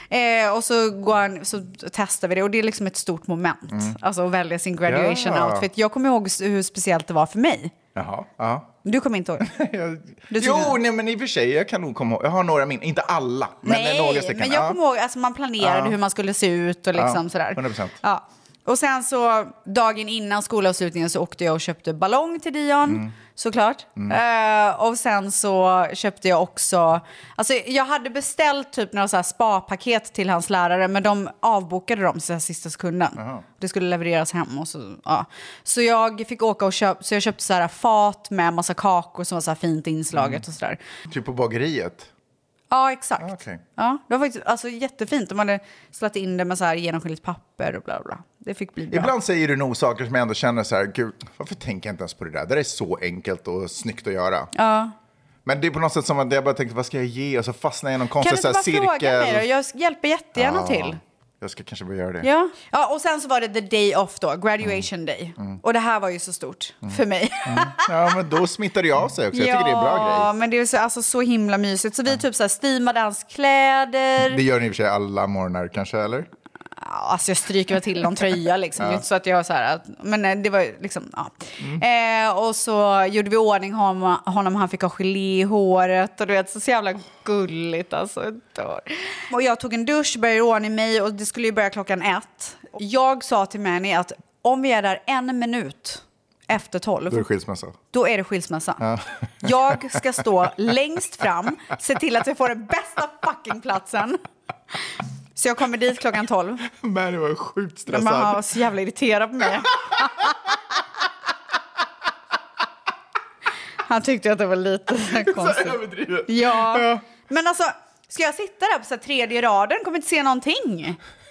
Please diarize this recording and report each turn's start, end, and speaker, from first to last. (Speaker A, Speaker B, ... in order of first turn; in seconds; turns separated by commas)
Speaker A: 0.1-7.7, Speaker B: 3.7-4.0, Speaker B: 4.9-5.7, Speaker B: 8.0-8.7, Speaker A: 8.8-9.5, Speaker B: 9.4-14.8, Speaker A: 10.3-10.8, Speaker A: 13.6-40.8, Speaker B: 15.6-16.0, Speaker B: 16.9-18.0, Speaker B: 22.9-23.1, Speaker B: 33.2-33.4, Speaker B: 40.1-40.4, Speaker B: 41.1-42.1, Speaker A: 42.7-49.1, Speaker B: 43.2-43.6, Speaker B: 48.9-54.5, Speaker A: 54.5-54.9, Speaker B: 55.5-59.4, Speaker A: 58.2-61.0, Speaker B: 60.4-62.3, Speaker A: 62.2-67.9, Speaker B: 66.9-70.3, Speaker A: 69.3-74.4, Speaker B: 74.3-76.3, Speaker A: 76.8-97.3, Speaker B: 97.1-97.8, Speaker A: 97.9-98.8, Speaker B: 98.8-100.0, Speaker A: 99.4-104.2, Speaker A: 105.4-106.7, Speaker B: 106.7-108.4, Speaker A: 107.9-110.4, Speaker A: 113.8-121.0, Speaker B: 115.1-117.0